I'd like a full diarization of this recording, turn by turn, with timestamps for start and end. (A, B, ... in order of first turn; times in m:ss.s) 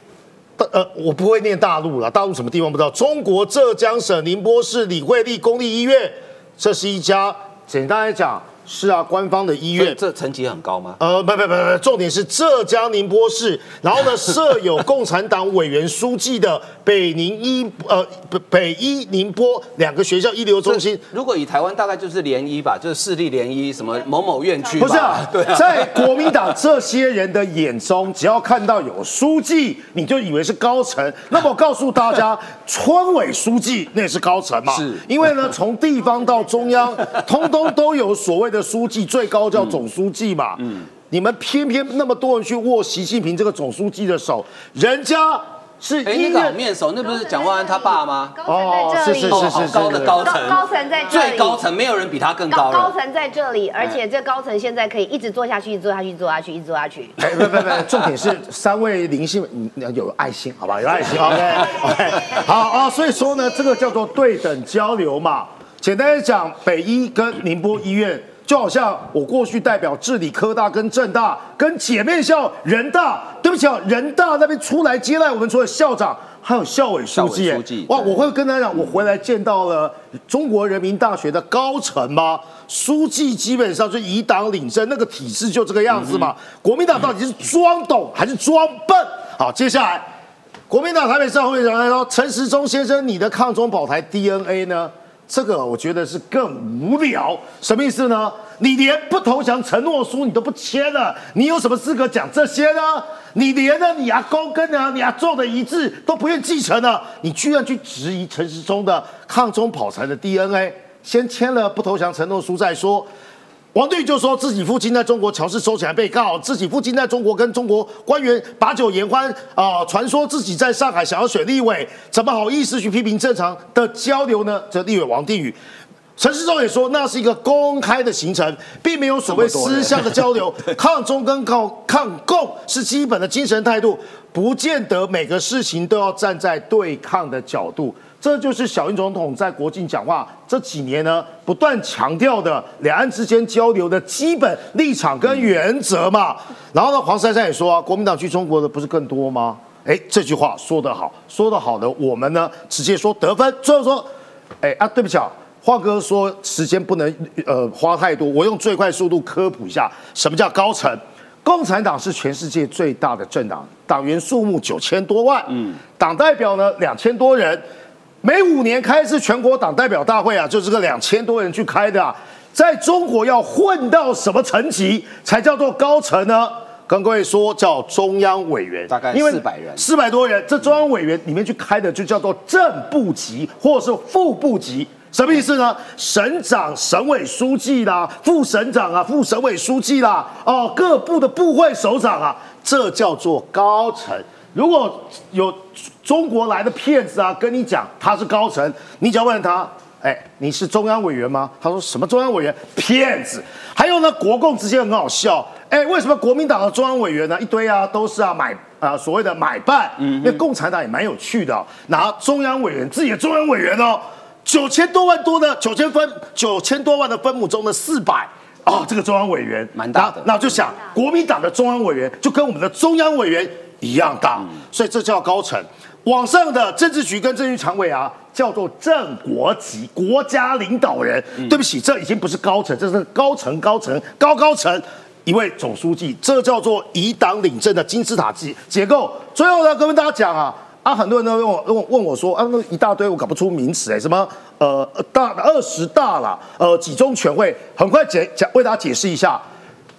0:00.6-0:10.0 A
0:09.7-0:11.0 B
0:11.0-0:21.0 A
0:20.6-0:26.4 B
0:24.8-0:46.6 A
0:34.7-0:35.3 B
0:36.0-0:36.8 C
0:40.6-0:40.9 B
0:46.0-0:48.4 B
0:47.0-0:51.6 C
0:48.5-0:50.4 A
0:49.1-0:52.9 B
0:52.5-0:57.2 C
0:57.2-1:30.0 A
1:02.6-1:03.6 C
1:17.1-1:18.3 B
1:30.7-1:53.1 A
1:53.7-2:05.6 A
2:06.2-2:34.1 A
2:09.3-2:10.2 B
2:34.6-2:47.6 A
2:48.2-4:09.4 A
2:58.9-2:59.8 B
3:30.0-3:30.4 B
3:39.7-3:40.4 B